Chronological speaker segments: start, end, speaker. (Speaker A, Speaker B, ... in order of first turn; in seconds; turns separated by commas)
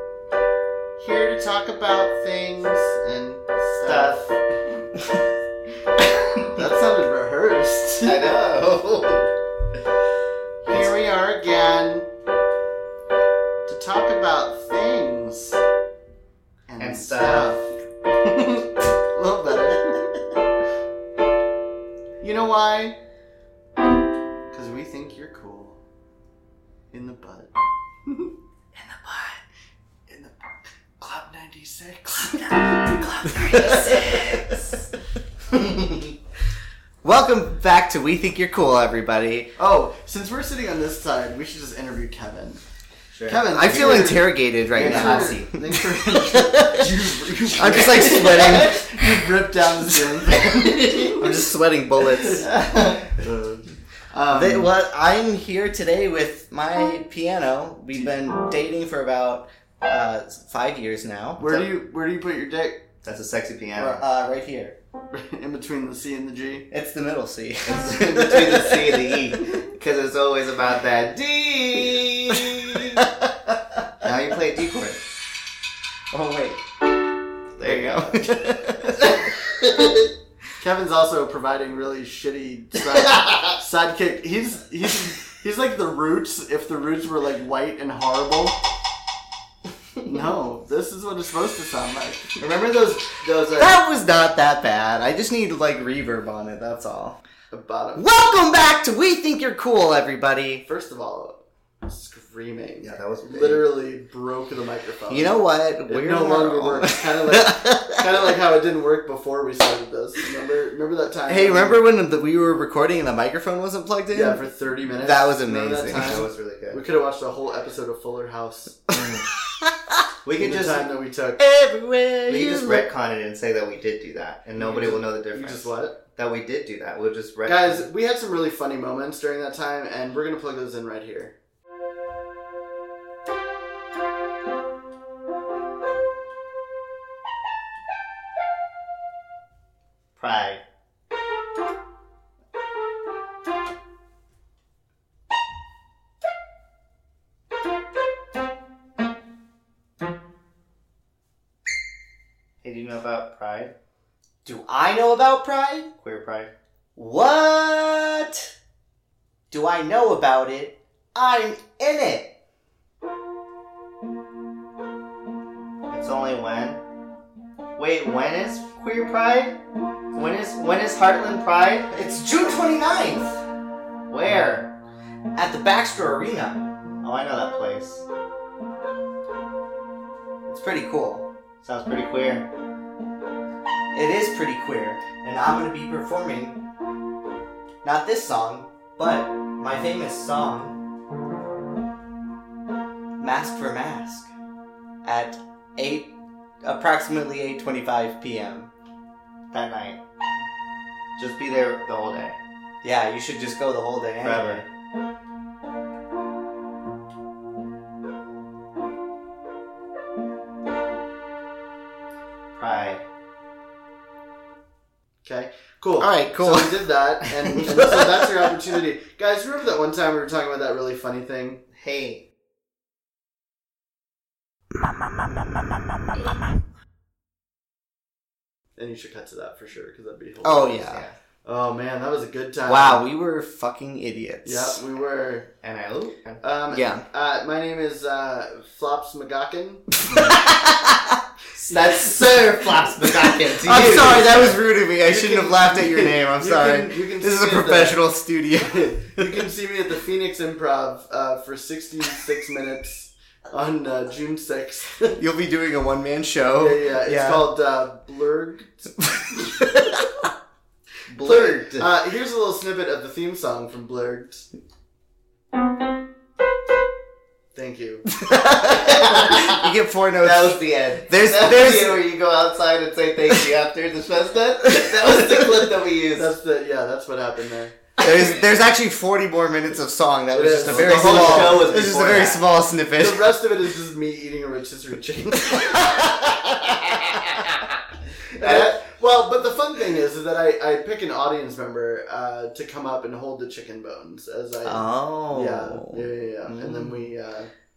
Speaker A: 1.0-4.3, Speaker B: 3.8-4.3, Speaker A: 6.5-8.3, Speaker B: 8.0-9.3, Speaker A: 10.7-12.1, Speaker A: 13.7-15.6, Speaker A: 16.7-20.2, Speaker B: 16.8-17.6, Speaker A: 22.2-23.0, Speaker A: 24.5-25.8, Speaker A: 26.9-27.5, Speaker A: 30.1-34.2, Speaker B: 32.8-34.7, Speaker C: 33.3-34.3, Speaker B: 35.5-36.1, Speaker C: 37.0-39.5, Speaker A: 39.6-42.6, Speaker B: 43.1-44.1, Speaker A: 43.2-51.5, Speaker C: 43.5-46.9, Speaker B: 44.7-45.5, Speaker C: 47.6-49.2, Speaker B: 47.8-48.8, Speaker B: 50.4-51.1, Speaker C: 51.1-52.5, Speaker A: 52.1-52.5, Speaker B: 52.4-53.1, Speaker A: 53.2-54.7, Speaker C: 54.3-61.6, Speaker A: 61.4-62.8, Speaker B: 63.0-64.0, Speaker C: 63.8-64.8, Speaker A: 65.1-66.7, Speaker C: 66.7-69.0, Speaker B: 67.7-73.1, Speaker C: 72.3-73.2, Speaker B: 74.0-75.0, Speaker C: 76.1-76.6, Speaker B: 77.6-78.4, Speaker C: 77.6-79.1, Speaker B: 79.0-80.1, Speaker A: 80.6-88.6, Speaker B: 82.9-83.6, Speaker A: 90.0-92.4, Speaker B: 92.4-93.8, Speaker C: 93.5-97.2, Speaker A: 97.5-98.0, Speaker C: 98.0-100.7, Speaker A: 100.7-111.8, Speaker B: 102.8-103.7, Speaker C: 105.1-108.0, Speaker C: 111.3-114.4, Speaker A: 114.1-118.9, Speaker C: 115.0-116.2, Speaker B: 115.9-116.8, Speaker B: 118.9-119.3, Speaker B: 120.2-120.9, Speaker A: 120.4-121.4, Speaker C: 121.4-122.9, Speaker B: 122.3-127.9, Speaker A: 124.5-126.0, Speaker A: 127.5-131.4, Speaker B: 140.2-140.6, Speaker B: 152.6-153.7, Speaker C: 154.4-155.9, Speaker B: 156.0-156.5, Speaker C: 157.0-158.5, Speaker C: 159.5-162.4, Speaker B: 165.9-166.8, Speaker B: 167.8-169.6, Speaker B: 170.1-171.9, Speaker C: 171.9-173.4, Speaker B: 174.1-174.7, Speaker C: 175.3-176.7, Speaker B: 177.0-178.1, Speaker C: 180.5-181.3, Speaker B: 181.6-182.5, Speaker C: 183.9-186.6, Speaker C: 187.8-190.8, Speaker C: 193.2-194.3, Speaker C: 195.0-198.7, Speaker B: 199.5-200.0, Speaker B: 201.2-202.4, Speaker C: 202.8-204.7, Speaker B: 204.2-204.7, Speaker B: 212.5-213.0, Speaker A: 215.2-221.6, Speaker C: 216.0-218.3, Speaker B: 221.7-222.2, Speaker C: 224.8-226.6, Speaker A: 228.8-230.9, Speaker C: 230.4-231.1, Speaker B: 230.8-231.2, Speaker A: 231.4-233.1, Speaker C: 232.7-234.8, Speaker A: 234.4-235.5, Speaker B: 235.6-236.4, Speaker A: 236.4-239.9, Speaker C: 236.7-237.0, Speaker C: 240.1-241.2, Speaker B: 241.6-244.6, Speaker C: 243.6-249.4, Speaker A: 245.0-248.0, Speaker A: 248.6-255.2, Speaker C: 255.1-257.5, Speaker A: 256.6-259.2, Speaker C: 259.6-260.0, Speaker B: 261.1-261.9, Speaker A: 261.2-264.5, Speaker A: 267.5-268.1, Speaker C: 268.1-272.0, Speaker B: 268.6-276.3, Speaker C: 274.6-275.8, Speaker A: 276.1-277.8, Speaker C: 278.0-283.4, Speaker A: 280.3-282.1, Speaker B: 280.6-282.4, Speaker A: 283.0-285.8, Speaker C: 285.5-287.1, Speaker A: 288.3-297.5, Speaker B: 288.4-288.8, Speaker C: 294.6-296.1, Speaker B: 296.5-296.8